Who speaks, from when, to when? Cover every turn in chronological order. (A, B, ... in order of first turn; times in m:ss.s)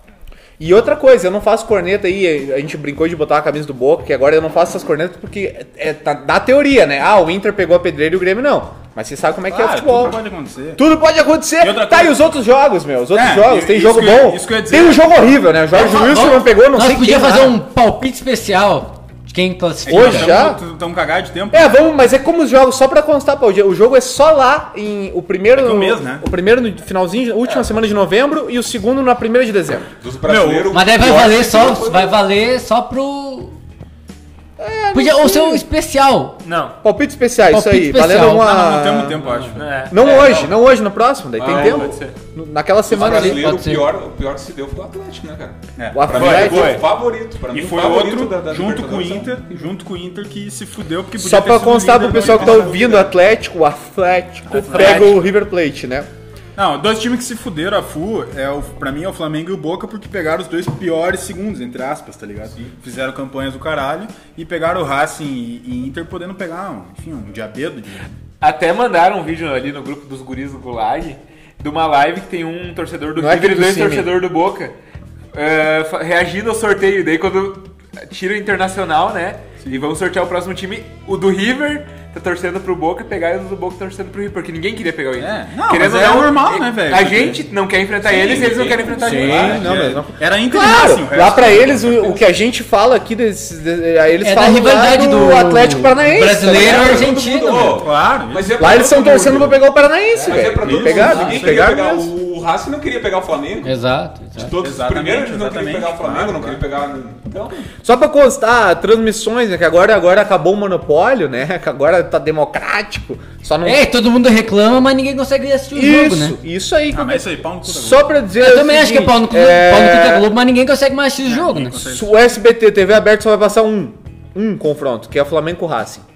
0:00.6-0:10.2 A
0:09.5-0:10.8 B
0:10.8-0:17.6 A
0:11.6-0:12.2 B
0:13.1-0:15.3 B
0:15.7-0:20.4 C
0:19.8-0:21.8 B
0:19.9-0:20.6 A
0:21.5-0:29.9 A
0:25.5-0:26.2 B
0:30.0-0:32.2 D
0:30.2-0:30.8 B
0:30.7-0:33.5 C
0:34.6-0:35.6 A
0:34.9-0:36.4 C
0:36.4-0:36.8 E
0:36.8-0:39.3 A
0:37.5-0:38.6 C
0:38.5-0:39.8 B
0:39.2-0:40.5 D
0:39.5-0:40.5 E
0:39.9-0:43.5 A
0:41.4-0:42.0 D
0:41.5-0:42.1 E
0:42.9-0:49.3 D
0:42.9-0:43.9 C
0:45.8-0:46.3 B
0:45.9-0:46.8 A
0:46.1-0:46.8 E
0:47.5-0:53.1 B
0:51.2-0:56.1 A
0:52.2-0:52.7 D
0:54.5-0:55.3 B
0:56.6-1:08.1 B
1:08.4-1:14.7 E
1:13.2-1:14.1 A
1:15.3-1:29.6 E
1:25.2-1:27.5 B
1:28.0-1:30.0 D
1:28.1-1:32.4 B
1:29.0-1:37.1 A
1:34.2-1:37.8 C
1:36.5-1:39.6 D
1:37.8-1:38.6 B
1:38.6-1:42.1 A
1:40.2-1:43.8 D
1:40.3-1:41.9 B
1:43.6-1:44.5 C
1:44.3-1:47.7 D
1:44.6-1:46.6 B
1:47.8-1:53.8 A
1:53.6-1:56.4 C
1:55.7-2:00.3 A
1:56.9-1:58.2 B
1:58.4-2:01.9 C
2:01.2-2:02.2 B
2:01.9-2:06.0 A